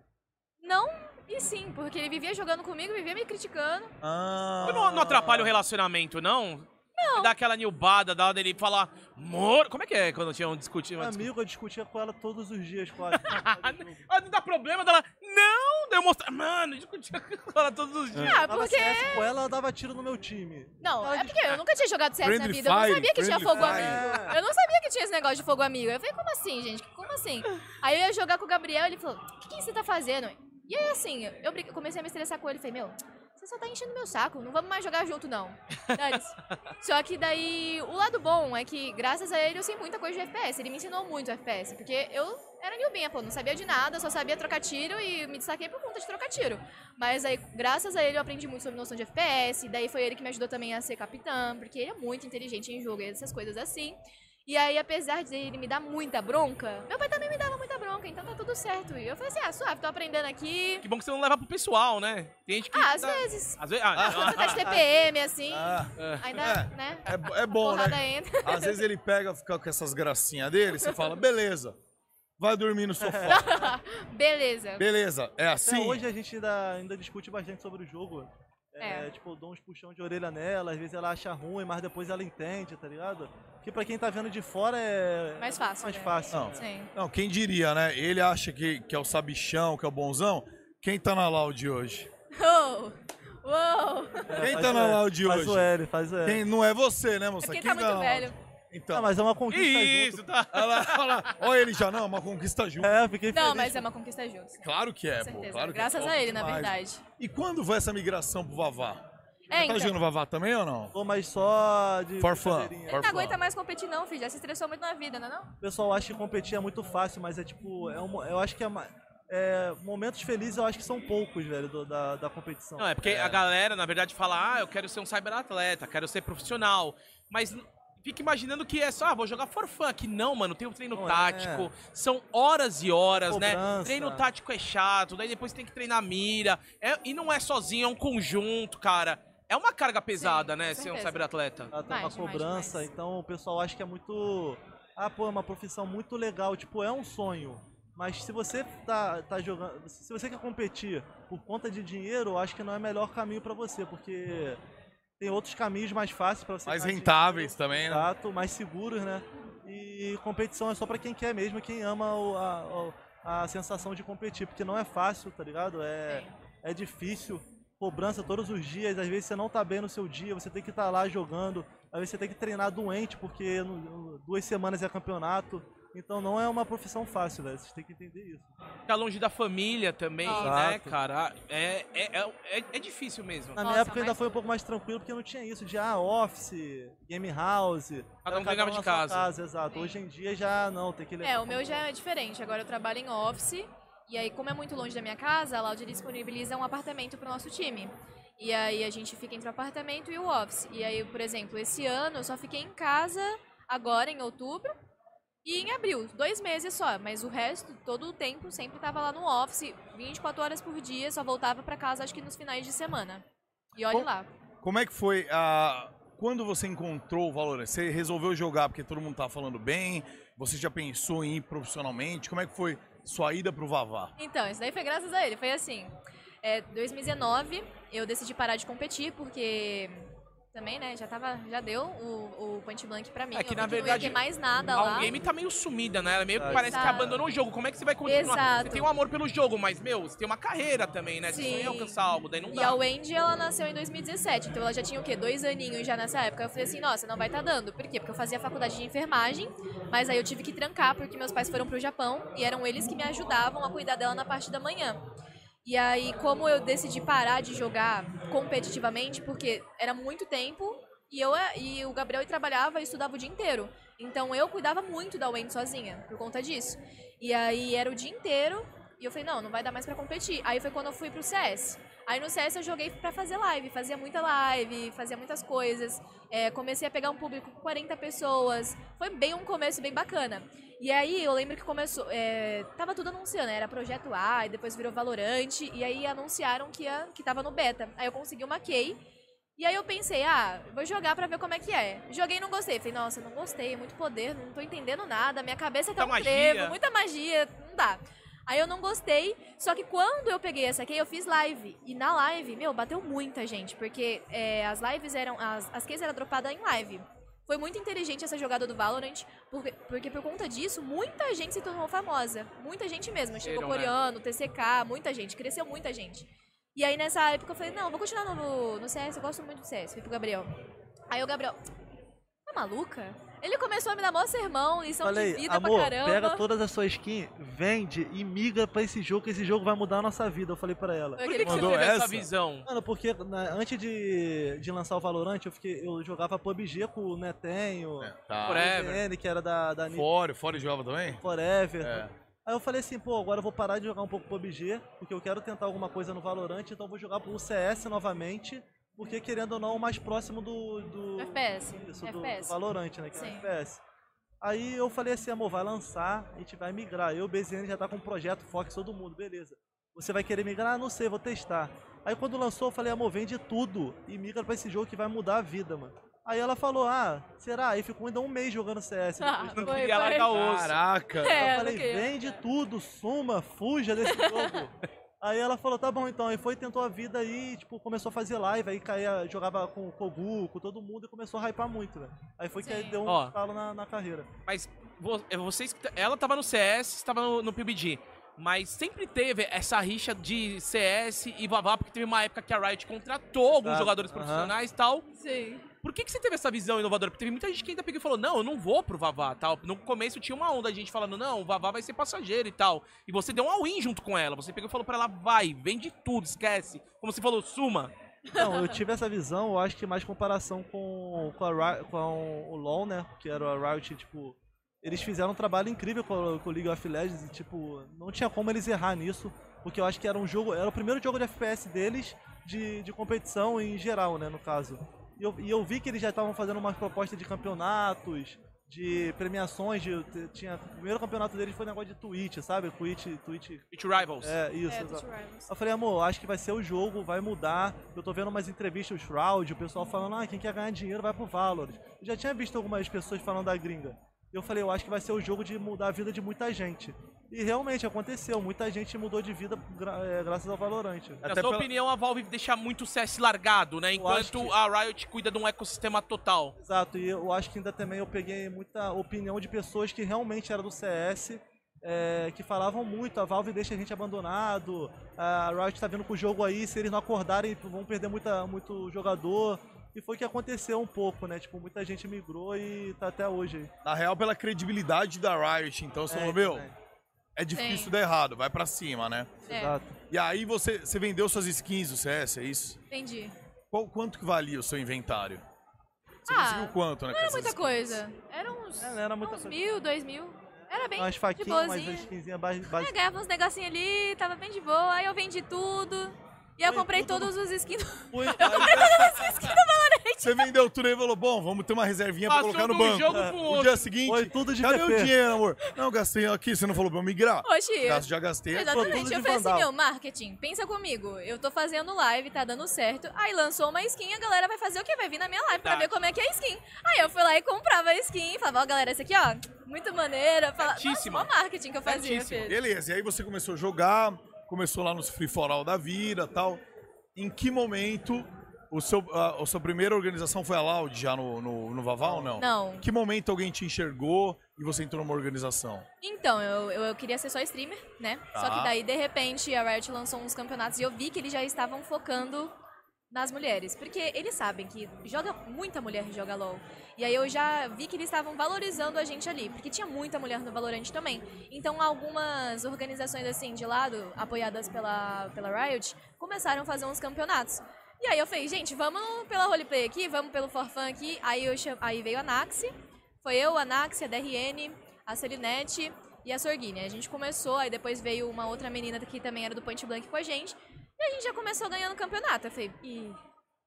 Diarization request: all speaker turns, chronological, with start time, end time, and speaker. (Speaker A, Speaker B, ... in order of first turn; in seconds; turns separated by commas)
Speaker A: 0.6-3.9, Speaker B: 4.0-5.5, Speaker C: 4.6-5.5, Speaker D: 4.6-11.3, Speaker A: 7.0-7.3, Speaker C: 11.0-14.1, Speaker D: 13.1-18.4, Speaker B: 18.1-18.4, Speaker A: 18.2-19.3, Speaker C: 18.5-21.6, Speaker A: 20.8-60.9, Speaker B: 22.2-24.2, Speaker C: 23.5-24.4, Speaker D: 60.8-64.6, Speaker A: 62.7-68.8, Speaker B: 63.9-64.6, Speaker B: 65.5-71.8, Speaker D: 66.0-66.4, Speaker A: 70.7-71.1, Speaker B: 72.4-73.7, Speaker C: 73.0-73.7, Speaker A: 73.3-74.8, Speaker B: 74.8-76.0, Speaker C: 75.6-86.7, Speaker A: 78.8-79.1, Speaker A: 85.4-86.9, Speaker B: 86.3-92.1, Speaker A: 92.3-94.5, Speaker C: 94.3-96.4, Speaker B: 94.4-95.7, Speaker B: 96.2-99.1, Speaker A: 97.4-98.3, Speaker C: 98.9-100.3, Speaker D: 99.5-101.4, Speaker B: 100.5-102.9, Speaker C: 102.8-103.8, Speaker A: 103.3-107.0, Speaker B: 104.6-110.9, Speaker A: 109.5-109.9, Speaker C: 110.9-113.0, Speaker B: 112.2-113.4, Speaker A: 112.9-115.5, Speaker C: 115.6-123.0, Speaker D: 122.8-141.7, Speaker B: 123.0-123.4, Speaker C: 130.9-131.7, Speaker C: 133.3-134.2, Speaker A: 140.2-141.2, Speaker C: 141.7-154.6, Speaker A: 141.9-142.8, Speaker C: 155.2-178.5, Speaker B: 156.7-158.1, Speaker A: 166.1-166.3, Speaker D: 178.9-183.6, Speaker A: 180.2-180.6, Speaker C: 180.3-181.0, Speaker C: 183.6-191.8, Speaker A: 183.6-184.4, Speaker D: 188.2-189.3, Speaker A: 189.7-190.0, Speaker A: 191.2-204.7, Speaker A: 205.4-214.3, Speaker B: 214.6-224.1, Speaker A: 224.2-235.2, Speaker D: 233.3-242.8, Speaker C: 236.3-237.1, Speaker A: 236.5-237.2, Speaker A: 238.0-238.9, Speaker A: 241.3-242.0, Speaker A: 242.5-255.0, Speaker A: 255.6-289.0, Speaker A: 289.6-320.5, Speaker D: 296.0-296.8, Speaker D: 313.4-313.9, Speaker A: 321.1-321.6, Speaker A: 322.4-326.4, Speaker C: 325.0-331.2, Speaker A: 331.2-331.9, Speaker D: 331.2-332.7, Speaker B: 331.4-332.3, Speaker C: 332.6-340.1, Speaker B: 338.0-338.7, Speaker D: 338.4-339.0, Speaker B: 339.9-341.2, Speaker C: 341.2-353.8, Speaker B: 341.8-342.1, Speaker A: 351.2-352.6, Speaker A: 353.1-353.4, Speaker C: 354.4-370.1, Speaker A: 369.2-370.3, Speaker D: 369.6-370.8, Speaker B: 370.3-371.5, Speaker A: 371.2-372.4, Speaker C: 371.2-384.3, Speaker A: 374.1-374.6, Speaker A: 382.6-383.0, Speaker D: 383.1-383.3, Speaker D: 384.5-395.1, Speaker C: 393.6-394.5, Speaker A: 395.2-395.6, Speaker D: 395.8-407.9, Speaker A: 408.3-408.8, Speaker C: 408.3-433.7, Speaker D: 433.7-434.4, Speaker C: 434.2-451.2, Speaker A: 434.7-435.5, Speaker B: 451.2-451.7, Speaker D: 451.2-456.6, Speaker C: 453.9-454.5, Speaker C: 456.6-473.7, Speaker B: 473.8-476.7, Speaker C: 476.1-476.7, Speaker B: 477.4-479.4, Speaker A: 477.5-477.9, Speaker C: 479.5-479.9, Speaker A: 479.5-479.8, Speaker B: 480.1-482.8, Speaker A: 482.9-483.3, Speaker B: 483.7-485.4, Speaker B: 486.2-488.0, Speaker A: 486.2-492.1, Speaker C: 488.8-489.6, Speaker C: 490.8-492.9, Speaker A: 492.7-500.5, Speaker C: 496.6-497.3, Speaker C: 498.1-499.2, Speaker B: 498.4-499.6, Speaker B: 500.2-509.1, Speaker D: 502.3-503.9, Speaker C: 503.1-503.4, Speaker C: 504.0-505.1, Speaker A: 507.4-522.6, Speaker C: 508.6-509.7, Speaker D: 515.6-516.0, Speaker D: 520.6-521.3, Speaker D: 521.8-522.5, Speaker B: 522.5-526.6, Speaker B: 527.1-535.9, Speaker C: 532.0-532.3, Speaker A: 532.4-532.9, Speaker A: 536.0-542.5, Speaker B: 538.3-538.8, Speaker A: 543.1-573.2